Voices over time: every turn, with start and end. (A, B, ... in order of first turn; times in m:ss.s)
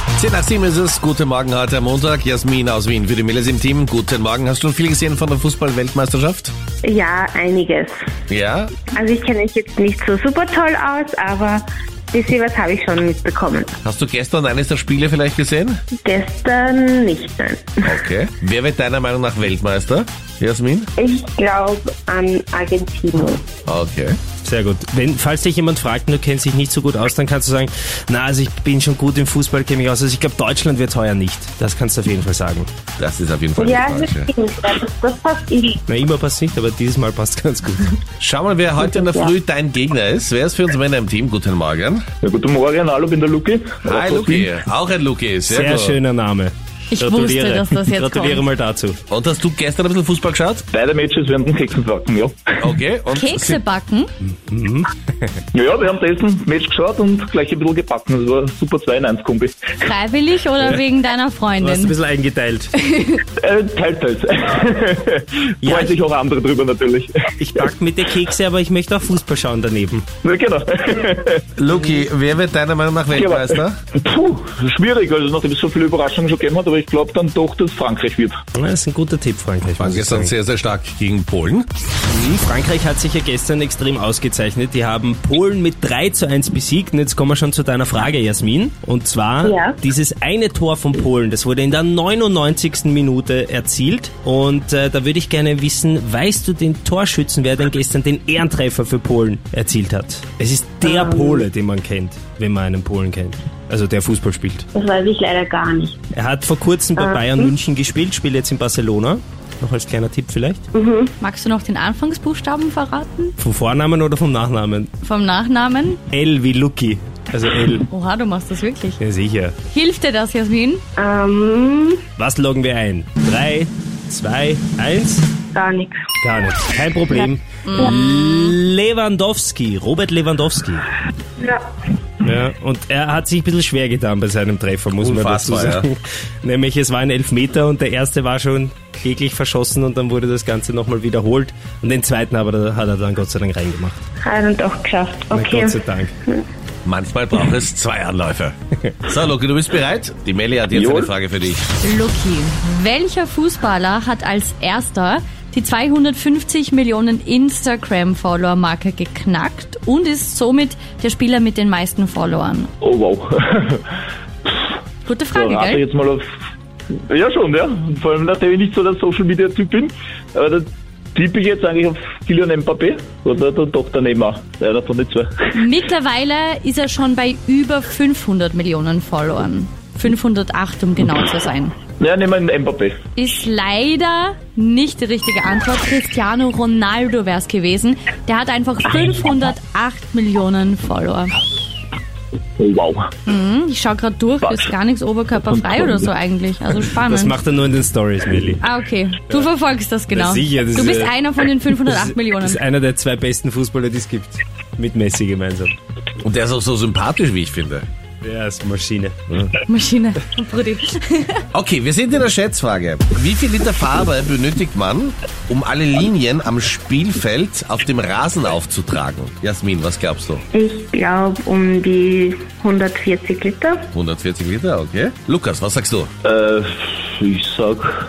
0:00.2-0:06.5 A
0:06.8-0:07.9 B
0:08.3-0:08.8 A
0:08.8-0:13.8 B
0:13.8-0:15.8 A
0:16.0-0:18.0 B
0:17.8-0:20.9 A
0:21.0-0:23.5 B
0:23.6-0:24.2 A
0:24.4-0:32.7 C
0:33.0-0:34.3 A
0:33.6-0:35.8 B
0:35.9-0:37.9 C
0:38.2-0:42.0 A
0:38.8-0:39.3 B
0:42.2-0:44.4 D
0:43.8-0:46.0 A
0:45.5-0:49.0 C
0:46.9-0:48.4 E
0:49.1-0:50.6 A
0:50.7-0:52.3 D
0:52.6-0:53.6 A
0:53.1-0:54.1 E
0:54.2-0:55.3 C
0:55.6-0:59.5 D
0:59.8-1:01.9 E
1:01.6-1:02.7 C
1:02.8-1:03.2 E
1:03.4-1:04.2 D
1:04.8-1:05.1 D
1:05.6-1:05.9 C
1:05.7-1:07.0 D
1:07.4-1:10.1 C
1:10.3-1:10.6 D
1:11.6-1:13.8 A
1:13.2-1:13.4 D
1:14.1-1:18.3 D
1:18.5-1:20.3 C
1:19.8-1:21.7 A
1:22.1-1:44.7 C
1:29.4-1:29.7 B
1:40.8-1:41.3 B
1:44.7-1:46.0 B
1:46.1-1:50.7 C
1:47.0-1:47.5 B
1:50.7-1:51.1 B
1:51.2-1:53.3 E
1:53.4-1:54.9 C
1:55.0-1:56.0 E
1:56.1-1:57.9 C
1:57.9-1:59.0 E
1:59.0-1:59.6 C
1:59.7-2:00.8 E
2:01.0-2:02.0 B
2:02.2-2:05.2 C
2:05.5-2:06.0 B
2:06.2-2:10.9 C
2:07.6-2:08.6 E
2:12.2-2:24.0 C
2:15.0-2:15.9 A
2:24.2-2:26.4 B
2:25.3-2:26.1 C
2:26.8-2:28.5 A
2:29.1-2:31.6 A
2:31.8-2:42.7 E
2:42.9-2:43.2 D
2:45.0-2:45.8 E
2:45.4-2:46.2 D
2:47.1-2:50.6 D
2:51.2-2:55.2 D
2:55.5-3:01.8 E
3:02.0-3:02.9 D
3:03.2-3:11.4 E
3:12.6-3:12.9 D
3:13.2-3:17.4 E
3:17.0-3:18.6 C
3:18.6-3:22.6 E
3:20.1-3:21.1 C
3:21.8-3:25.7 C
3:26.2-3:27.8 A
3:28.2-3:29.6 C
3:29.7-3:31.4 E
3:31.5-3:40.4 A
3:40.5-3:43.8 B
3:43.9-3:46.1 A
3:46.2-3:46.6 D
3:47.2-3:47.8 D